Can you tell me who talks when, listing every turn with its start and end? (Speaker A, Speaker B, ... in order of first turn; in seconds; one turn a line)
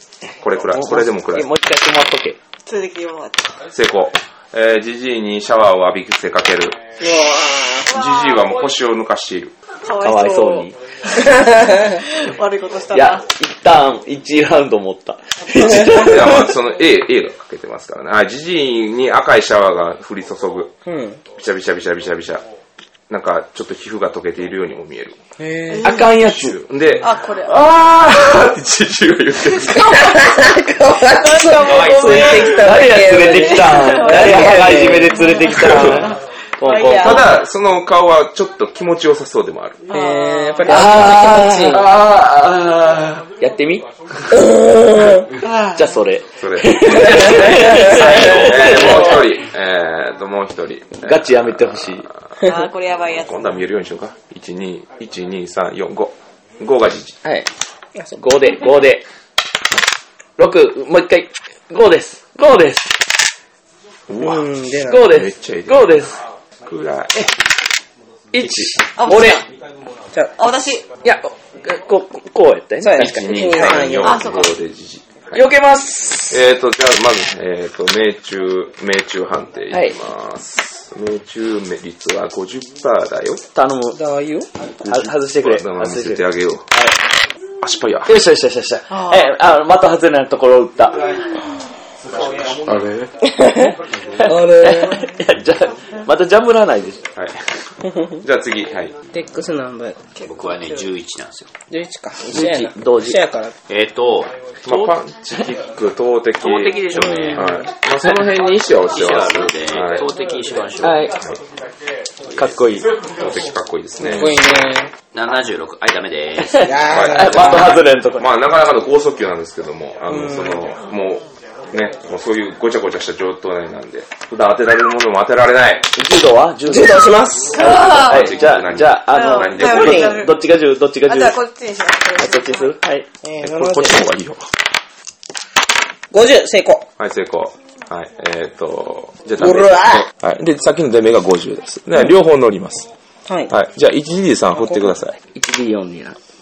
Speaker A: 0.4-1.5
Speaker B: 0.8-2.4
Speaker C: 2.6-3.6
Speaker A: 3.7-6.8
Speaker D: 7.0-7.9
Speaker C: 7.9-8.5
Speaker A: 7.9-9.6
Speaker C: 9.8-13.2
Speaker B: 10.0-10.8
Speaker D: 11.2-12.0
Speaker B: 12.9-16.4
Speaker A: 15.7-20.8
Speaker D: 20.9-21.2
Speaker A: 21.3-22.4
Speaker A: 23.1-25.2
Speaker D: 25.4-26.0
Speaker C: 25.7-26.2
Speaker B: 25.8-26.6
Speaker A: 26.1-30.2
Speaker C: 27.0-28.4
Speaker C: 29.5-37.4
Speaker D: 29.7-35.3
Speaker B: 31.9-37.3
Speaker A: 35.5-36.0
Speaker A: 36.9-39.9
Speaker C: 39.9-40.7
Speaker D: 39.9-41.9
Speaker B: 40.6-49.2
Speaker D: 44.3-45.3
Speaker C: 45.4-45.9
Speaker A: 46.4-52.0
Speaker D: 47.2-48.1
Speaker C: 48.4-49.1
Speaker B: 51.0-52.1
Speaker C: 52.4-53.4
Speaker A: 53.1-57.2
Speaker B: 57.2-57.5
Speaker B: 58.2-59.1
Speaker B: 60.4-62.9
Speaker A: 64.1-67.3
Speaker D: 64.2-65.1
Speaker B: 64.8-66.2
Speaker B: 68.3-69.5
Speaker C: 69.0-69.5
Speaker C: 70.4-70.8
Speaker B: 71.0-73.9
Speaker D: 72.8-74.3
Speaker A: 73.0-75.4
Speaker C: 74.0-74.6
Speaker B: 75.3-76.4
Speaker A: 76.3-83.4
Speaker B: 79.7-80.0
Speaker B: 83.5-84.0
Speaker D: 83.9-84.5
Speaker A: 84.6-86.7
Speaker B: 84.8-87.0
Speaker A: 87.6-88.2
Speaker B: 88.1-91.1
Speaker C: 88.9-89.3
Speaker A: 92.1-93.1
Speaker D: 93.2-95.1
Speaker B: 94.1-97.0
Speaker A: 97.2-98.9
Speaker D: 99.1-100.0
Speaker C: 100.1-100.9
Speaker E: 100.2-101.5
Speaker D: 101.7-103.5
Speaker B: 102.3-103.2
Speaker E: 103.7-104.3
Speaker A: 104.6-110.1
Speaker B: 104.7-104.9
Speaker E: 106.4-107.6
Speaker D: 107.0-107.6
Speaker E: 108.9-111.1
Speaker B: 110.8-111.2
Speaker A: 111.1-111.4
Speaker B: 112.3-112.9
Speaker A: 113.0-114.5
Speaker D: 114.0-114.9
Speaker E: 115.1-116.9
Speaker B: 116.4-118.3
Speaker D: 116.6-117.8
Speaker A: 116.9-125.9
Speaker D: 120.1-120.6
Speaker B: 126.0-131.4
Speaker D: 126.7-127.8
Speaker C: 127.6-128.3
Speaker A: 127.6-130.2
Speaker C: 129.1-130.4
Speaker D: 129.8-130.1
Speaker C: 131.1-132.7
Speaker B: 132.2-133.1
Speaker D: 133.2-134.0
Speaker A: 133.4-134.5
Speaker D: 136.1-136.8
Speaker A: 137.0-142.9
Speaker D: 139.4-140.1
Speaker D: 143.3-143.5
Speaker A: 143.5-145.2
Speaker D: 144.6-144.9
Speaker B: 145.3-146.2